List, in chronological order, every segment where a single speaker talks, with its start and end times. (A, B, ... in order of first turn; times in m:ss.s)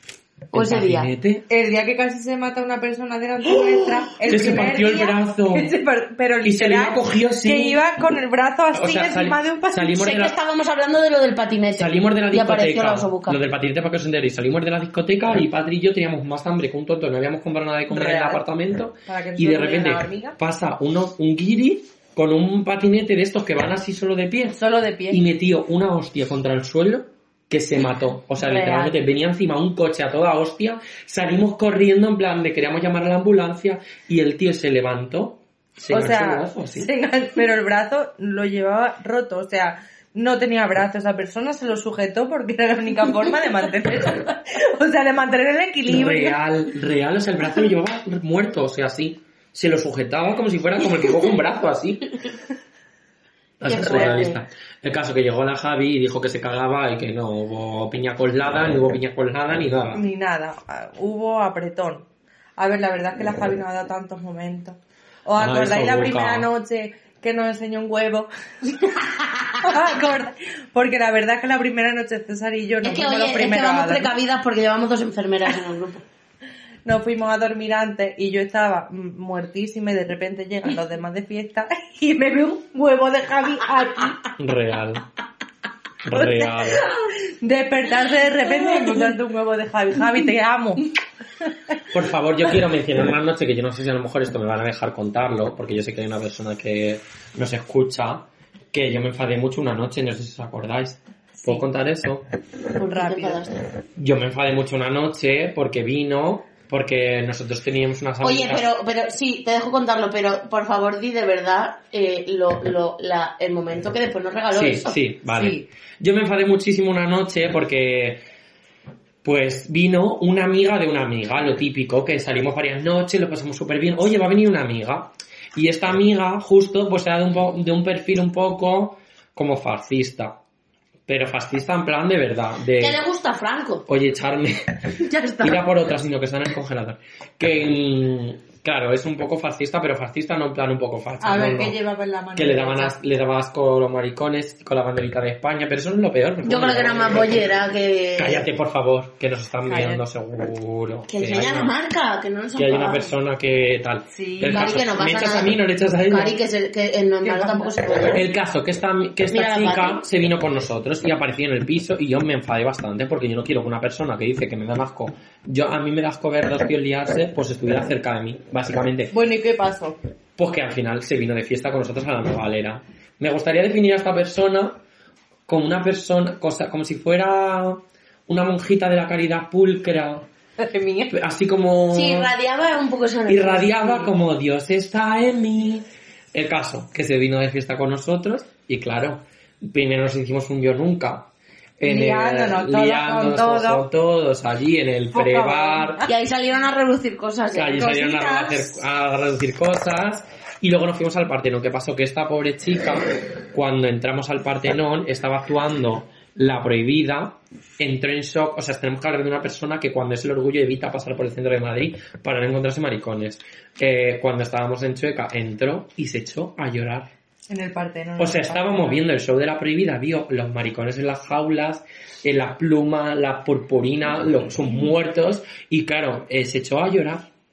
0:00.5-0:01.1 A
0:00.5-0:01.4 B
0:01.5-0:10.0 C
0:04.3-0:05.7 B
0:06.4-0:07.8 B
0:08.7-0:10.4 B
0:10.0-0:13.4 A
0:11.8-0:36.9 B
0:17.9-0:18.4 C
0:19.1-0:20.4 C
0:24.6-0:25.2 C
0:28.4-0:29.0 C
0:35.9-0:46.4 C
0:45.9-0:52.1 B
0:53.6-1:00.0 B
0:53.6-0:54.4 A
0:59.9-1:02.0 C
1:02.6-1:08.9 C
1:05.4-1:06.5 B
1:09.6-1:14.1 C
1:12.8-1:16.0 A
1:16.8-1:24.3 C
1:24.4-1:25.0 B
1:26.0-1:26.9 B
1:26.1-1:30.9 C
1:31.9-1:42.2 B
1:42.8-1:43.6 A
1:42.9-1:43.4 C
1:44.0-1:48.7 B
1:48.2-1:55.0 A
1:54.5-1:58.2 B
1:55.3-1:55.6 C
1:59.2-2:10.4 B
2:11.1-2:13.0 B
2:12.8-2:13.9 A
2:13.9-2:14.7 B
2:15.0-2:15.6 A
2:15.4-2:21.8 B
2:21.2-2:23.0 C
2:22.4-2:27.5 B
2:26.4-2:28.5 A
2:28.2-2:31.7 B
2:29.7-2:30.0 C
2:31.1-2:33.1 A
2:32.6-2:36.4 B
2:34.1-2:34.8 C
2:34.5-2:35.6 A
2:36.1-2:38.2 A
2:37.2-2:37.8 C
2:38.1-2:49.1 B
2:39.3-2:40.0 A
2:49.1-2:50.0 C
2:50.4-2:54.8 B
2:55.5-3:00.3 B
3:00.6-3:01.1 C
3:01.1-3:02.3 B
3:01.9-3:04.1 A
3:03.3-3:16.0 B
3:11.8-3:13.8 C
3:15.1-3:16.1 C
3:16.1-3:18.0 A
3:17.5-3:37.1 B
3:17.8-3:18.7 C
3:37.5-3:39.0 C
3:38.2-3:47.3 B